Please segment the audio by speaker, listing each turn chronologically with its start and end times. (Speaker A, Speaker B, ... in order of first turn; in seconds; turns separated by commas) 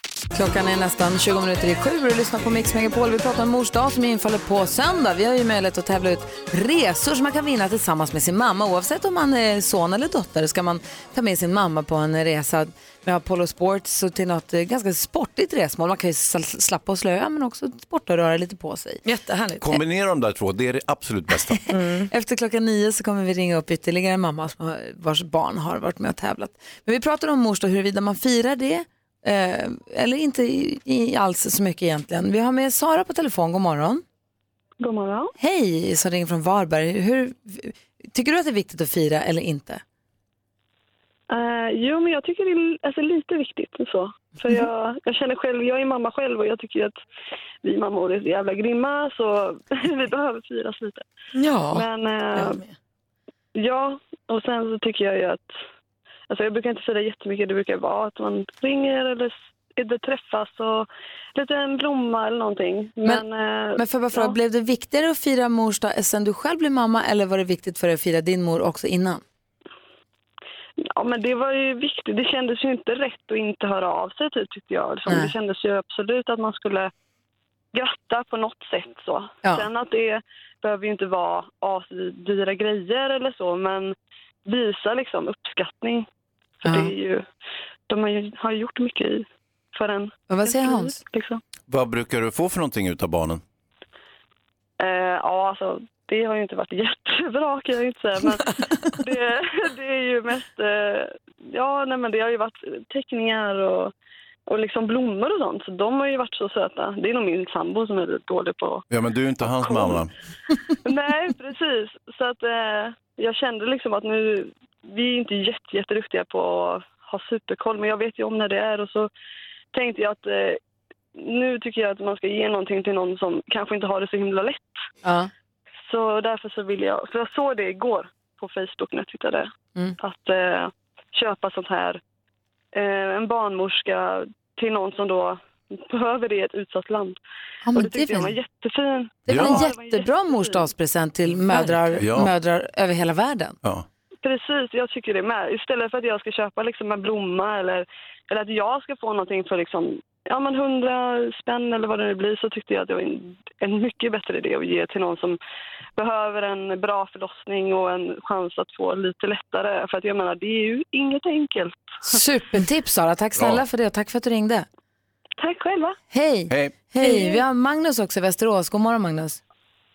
Speaker A: 0.3-19.0, Speaker B: 19.0-19.8, Speaker C: 19.6-21.6, Speaker B: 21.7-22.1, Speaker A: 22.1-34.0, Speaker D: 34.8-35.3, Speaker A: 35.4-39.8, Speaker D: 41.3-46.9, Speaker D: 47.6-51.0, Speaker B: 51.3-52.7, Speaker D: 51.7-52.6, Speaker D: 53.5-55.5, Speaker D: 56.3-64.4, Speaker A: 63.8-69.2, Speaker D: 70.8-76.9, Speaker A: 75.1-75.3, Speaker D: 77.7-83.9, Speaker D: 84.5-86.1, Speaker D: 86.6-87.2, Speaker A: 86.7-86.9, Speaker D: 87.9-91.4, Speaker A: 90.3-91.0, Speaker C: 91.7-93.4, Speaker D: 94.8-103.9, Speaker D: 104.5-108.8, Speaker C: 108.9-110.1, Speaker D: 109.5-110.0, Speaker D: 110.8-119.1, Speaker D: 119.7-120.6, Speaker D: 121.2-124.7, Speaker A: 125.0-125.3, Speaker D: 125.9-132.0, Speaker D: 132.7-137.2, Speaker A: 137.7-138.3, Speaker D: 137.7-140.7, Speaker A: 139.3-143.6, Speaker C: 139.3-139.6, Speaker B: 141.5-141.7, Speaker C: 141.9-142.3, Speaker D: 144.2-155.4, Speaker D: 156.0-161.8, Speaker A: 162.0-164.7, Speaker C: 163.3-163.6, Speaker D: 165.4-166.0, Speaker A: 166.1-169.4, Speaker C: 166.5-166.7, Speaker D: 167.0-167.3